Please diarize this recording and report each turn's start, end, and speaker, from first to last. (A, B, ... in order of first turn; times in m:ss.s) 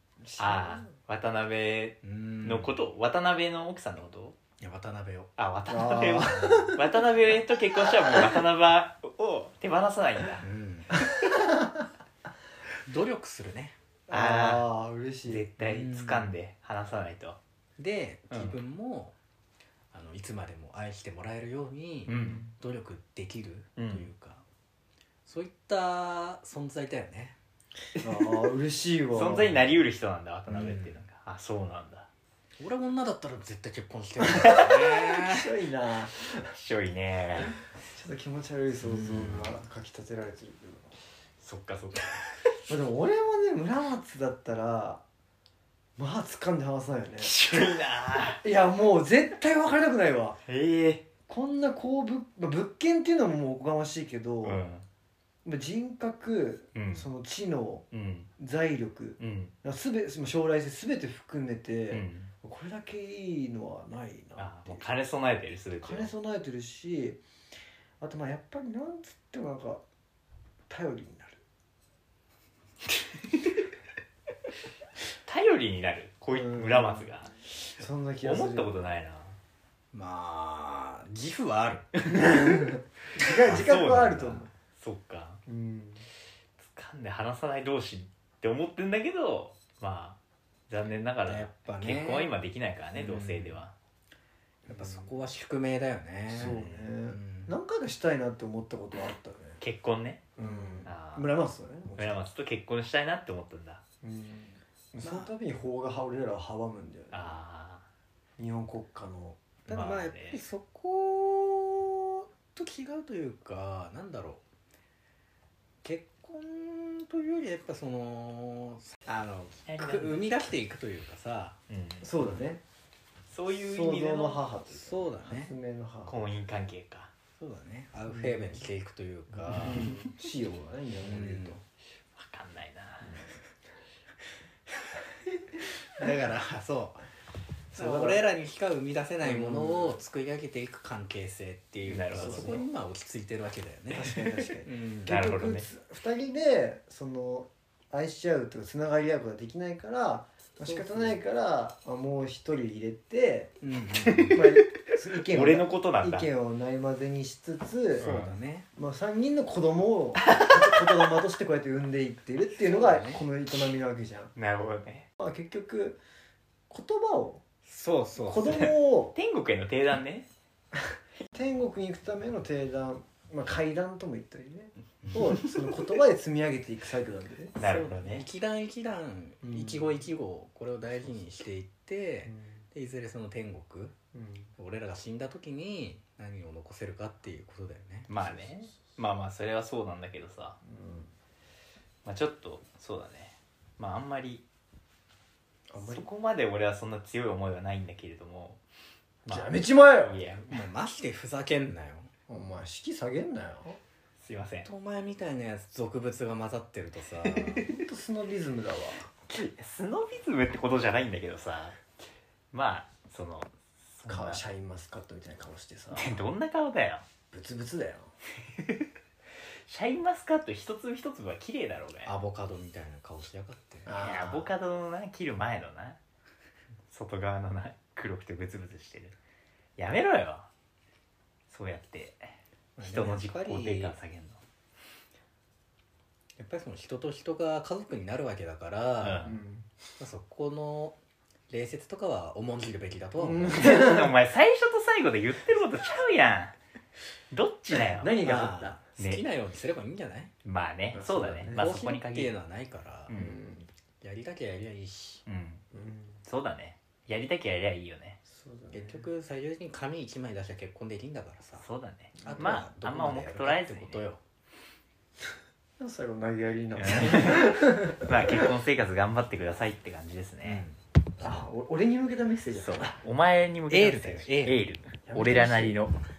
0:00.2-0:00.9 A
0:00.4-0:04.4 B
0:02.0-0:02.7 C
0:04.6-0:05.3 C
0:05.4-0:10.4 B
0:05.7-0:06.8 A
0:10.4-0:11.0 C
0:11.0-0:11.7 A
0:12.8-0:13.8 C
0:14.1-0:15.4 A
0:14.1-0:14.7 B
0:15.2-0:17.4 B
0:15.6-0:16.3 C
0:17.8-0:19.1 C
0:18.3-0:18.6 B
0:19.9-0:24.4 C
0:22.1-0:22.5 B
0:23.8-0:24.1 B
0:25.2-0:27.4 C
0:28.0-0:28.5 B
0:28.0-0:29.7 A
0:29.1-0:32.1 B
0:30.5-0:31.0 C
0:32.6-0:35.5 C
0:34.2-0:36.5 A
0:36.4-0:37.6 B
0:37.9-0:40.9 A
0:38.8-0:39.6 C
0:41.4-0:42.3 B
0:42.7-0:45.0 A
0:46.0-0:47.4 A
0:47.2-0:48.4 B
0:48.4-0:50.4 A
0:50.5-0:51.0 B
0:51.3-0:54.6 A
0:54.4-0:54.8 B
0:55.4-0:57.9 A
0:56.7-0:57.0 B
0:57.9-0:58.3 B
0:58.4-1:04.9 A
0:59.2-0:59.5 B
1:01.9-1:02.3 B
1:04.4-1:06.1 B
1:05.8-1:07.2 A
1:08.0-1:09.8 A
1:10.7-1:11.4 A
1:15.2-1:19.4 B
1:16.3-1:17.1 A
1:17.8-1:18.7 A
1:19.9-1:21.9 C
1:22.0-1:24.5 A
1:23.4-1:25.4 B
1:25.5-1:26.0 A
1:26.6-1:30.2 B
1:30.7-1:33.7 B
1:31.2-1:32.3 C
1:32.9-1:33.6 C
1:34.6-1:37.5 C
1:34.7-1:35.3 A
1:36.3-1:39.6 A
1:39.6-1:40.3 B
1:40.4-1:42.2 A
1:40.4-1:40.8 C
1:40.8-1:41.3 B
1:41.9-1:43.8 B
1:44.0-1:47.4 A
1:45.0-1:45.3 C
1:47.1-1:47.8 B
1:48.4-1:49.4 A
1:49.7-1:54.4 C
1:49.7-1:50.4 B
1:55.8-2:01.6 C
1:59.6-2:00.5 B
2:01.7-2:02.1 B
2:02.0-2:02.6 A
2:03.3-2:04.4 B
2:03.6-2:06.2 A
2:04.7-2:05.5 C
2:06.0-2:07.1 B
2:07.4-2:09.9 C
2:08.1-2:08.6 A
2:09.5-2:11.6 A
2:11.0-2:11.6 C
2:12.1-2:13.2 B
2:13.0-2:13.3 A
2:15.9-2:17.0 C
2:17.7-2:18.2 A
2:17.7-2:25.1 C
2:19.2-2:20.0 A
2:21.8-2:22.6 B
2:22.1-2:22.6 A
2:23.9-2:33.5 A
2:25.1-2:25.6 B
2:30.6-2:31.2 C
2:33.6-2:34.5 C
2:34.1-2:34.5 B
2:34.3-2:38.1 A
2:35.3-2:36.3 B
2:38.0-2:38.4 B
2:38.0-2:38.7 C
2:38.7-2:44.3 A
2:42.6-2:43.2 C
2:44.3-2:45.1 B
2:45.2-2:46.0 A
2:46.7-2:47.4 A
2:47.6-2:48.7 C
2:48.2-2:49.1 A
2:48.5-2:50.3 B
2:51.3-2:57.5 A
2:57.6-3:03.9 C
2:57.6-2:58.3 B
2:59.4-3:00.0 A
3:04.1-3:04.5 A
3:04.6-3:08.1 C
3:08.1-3:10.6 B
3:10.6-3:11.1 A
3:12.0-3:14.4 B
3:15.7-3:16.1 A
3:15.8-3:18.6 B
3:19.2-3:20.7 B
3:19.3-3:20.2 A
3:20.5-3:22.1 C
3:22.3-3:23.8 A
3:24.2-3:24.7 B
3:24.6-3:27.6 C
3:27.2-3:27.7 B
3:27.6-3:29.1 A
3:29.3-3:31.8 B
3:32.5-3:34.4 B
3:34.1-3:36.2 A
3:35.9-3:37.0 B
3:37.3-3:38.1 A
3:39.6-3:42.1 B
3:42.0-3:43.9 C
3:43.8-3:44.5 A
3:44.0-3:46.0 B
3:46.9-3:49.1 B
3:49.8-3:50.5 B
3:51.5-3:54.4 B
3:52.8-3:54.0 C
3:56.4-3:59.3 C
3:59.0-3:59.4 B
3:59.2-3:59.7 A
4:00.0-4:03.8 C
4:03.2-4:04.1 A
4:03.5-4:06.5 B
4:07.3-4:09.2 B
4:07.9-4:08.8 A
4:08.2-4:10.3 C
4:10.4-4:12.3 B
4:10.9-4:11.8 A
4:11.5-4:13.1 C
4:13.1-4:13.4 B
4:13.1-4:13.7 A
4:14.0-4:15.2 C
4:15.2-4:15.6 B
4:15.7-4:16.2 A
4:16.2-4:18.2 B
4:18.3-4:19.1 A
4:18.7-4:21.7 C
4:21.6-4:24.0 B
4:22.2-4:22.6 A
4:22.2-4:24.2 C
4:25.8-4:28.4 A
4:26.8-4:30.6 B
4:30.4-4:30.8 C
4:31.2-4:33.0 A
4:32.5-4:36.0 B
4:33.7-4:34.6 C
4:35.1-4:35.9 C